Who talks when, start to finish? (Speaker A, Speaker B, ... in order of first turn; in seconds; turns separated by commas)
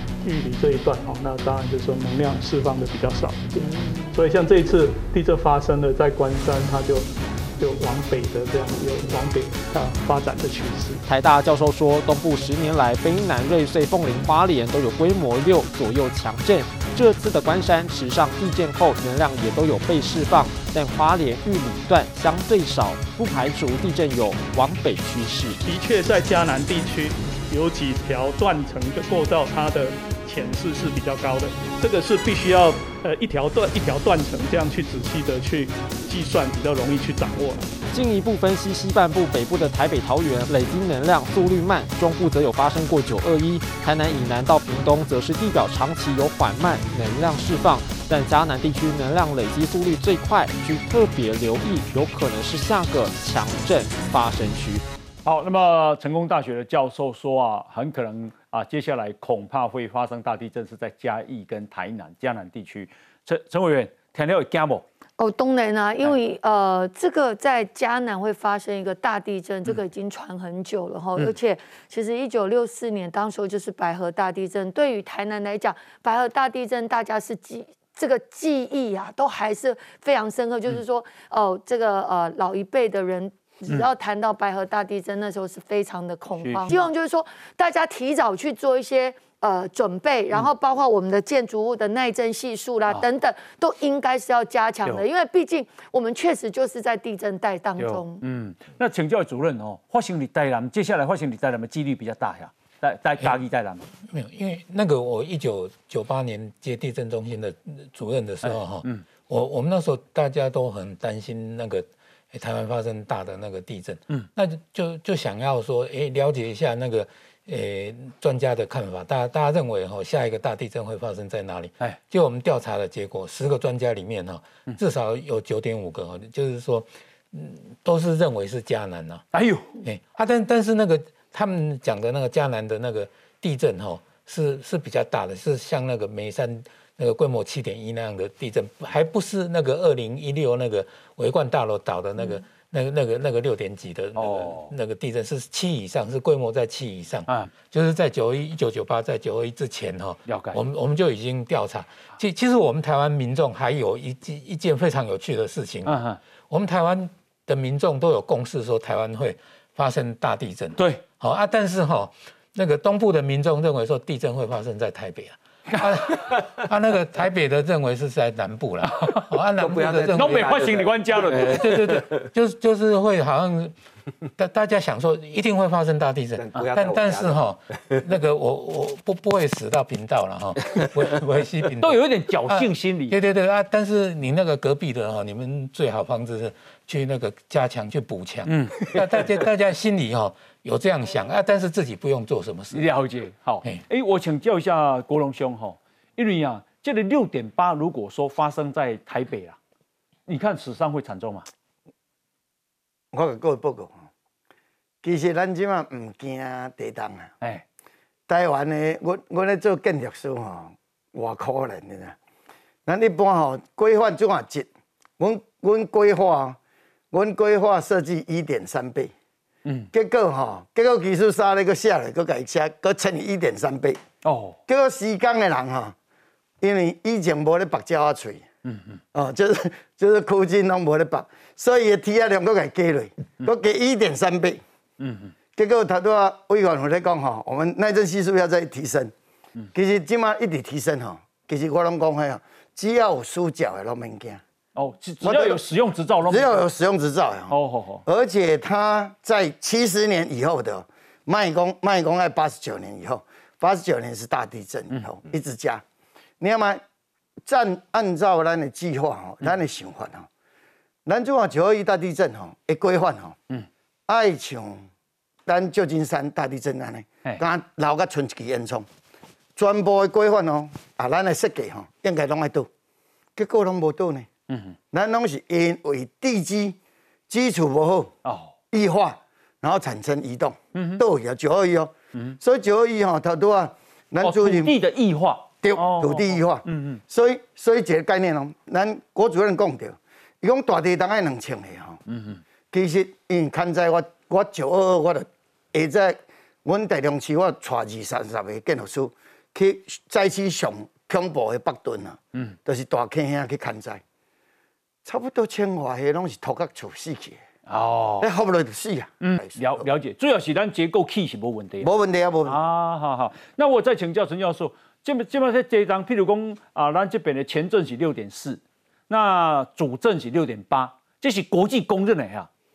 Speaker A: 0.2-11.0, Speaker B: 3.7-4.1, Speaker C: 11.1-25.6, Speaker A: 25.6-37.7, Speaker C: 37.9-54.9, Speaker D: 55.2-64.8, Speaker B: 65.2-98.2, Speaker D: 86.4-86.9, Speaker D: 97.8-103.9, Speaker E: 104.1-129.2, Speaker D: 108.4-109.0, Speaker D: 129.3-129.7, Speaker E: 129.8-173.7, Speaker D: 144.2-144.7, Speaker D: 150.3-150.6, Speaker D: 155.9-156.2, Speaker D: 160.8-161.0, Speaker D: 168.9-169.3, Speaker D: 170.1-171.6, Speaker E: 174.4-192.9, Speaker D: 181.8-183.1, Speaker D: 188.5-188.8, Speaker D: 192.7-199.6, Speaker D: 200.3-201.5, Speaker F: 203.1-203.9, Speaker F: 205.0-207.3, Speaker F: 208.3-212.1, Speaker F: 212.9-214.7, Speaker F: 215.2-216.6, Speaker F: 217.1-219.1, Speaker F: 219.9-224.0, Speaker D: 224.2-224.6, Speaker F: 224.7-225.9, Speaker F: 226.6-228.4, Speaker D: 228.7-229.0, Speaker F: 229.1-234.6, Speaker D: 235.0-235.3, Speaker F: 235.6-239.1, Speaker F: 239.7-244.4, Speaker D: 244.8-246.7, Speaker F: 245.2-245.6, Speaker F: 246.2-247.5, Speaker D: 247.5-248.0, Speaker F: 248.1-255.8, Speaker F: 256.4-256.8, Speaker F: 257.4-260.3, Speaker F: 261.1-263.4, Speaker F: 264.1-264.8, Speaker F: 265.4-268.9, Speaker F: 269.6-272.7, Speaker F: 273.4-274.3, Speaker D: 274.5-274.7, Speaker F: 274.9-276.8, Speaker F: 277.3-278.1, Speaker D: 278.2-278.5, Speaker F: 278.7-284.7, Speaker D: 280.7-281.0, Speaker D: 284.2-287.0, Speaker F: 285.6-292.0, Speaker D: 292.1-292.4, Speaker F: 292.7-304.0, Speaker F: 305.1-307.4, Speaker D: 307.7-308.3, Speaker F: 308.2-309.9, Speaker D: 309.2-311.9, Speaker F: 311.8-312.6, Speaker D: 312.4-322.5